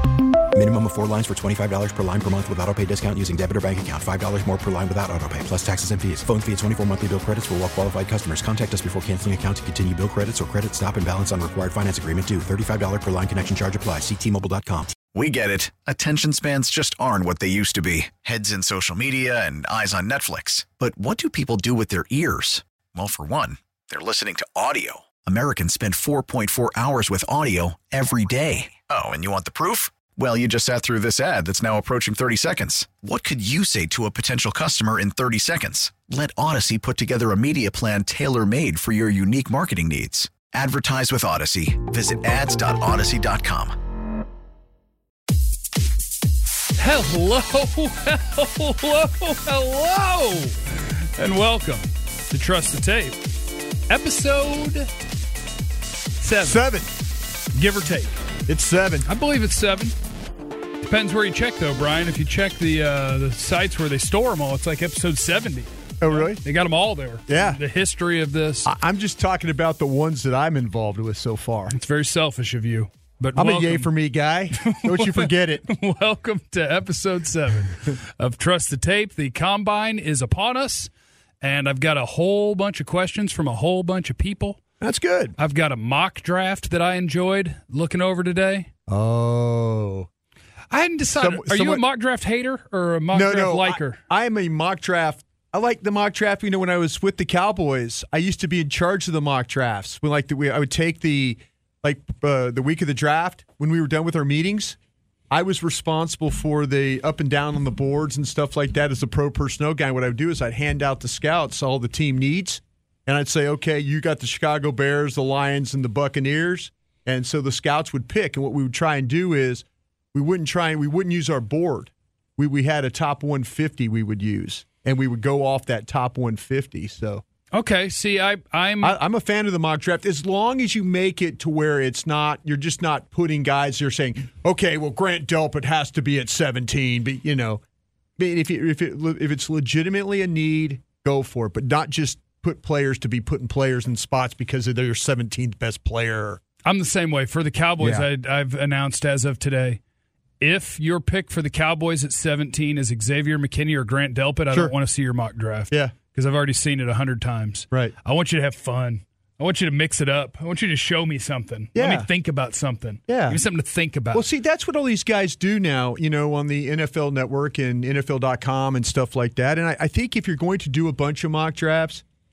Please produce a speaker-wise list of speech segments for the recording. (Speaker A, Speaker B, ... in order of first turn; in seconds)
Speaker A: 0.5-14.9
Speaker B: 15.1-43.8
Speaker C: 46.8-53.3, 53.9-54.9, 56.2-56.6, 57.5-58.1, 59.0-59.9, 60.8-68.7, 71.7-73.9, 74.6-80.9, 81.4-84.6, 85.4-88.7, 90.7-94.0, 127.5-129.0, 146.6-149.8, 150.4-164.2
Speaker D: 56.4-56.9, 58.5-59.1, 66.0-66.4, 67.3-67.6, 68.6-71.7, 73.3-75.7, 84.8-85.3, 88.9-90.1, 91.2-91.8, 93.1-104.8, 105.3-127.2, 128.8-137.6, 138.2-146.4, 147.8-148.1, 161.7-162.1, 163.1-163.4, 164.1-172.0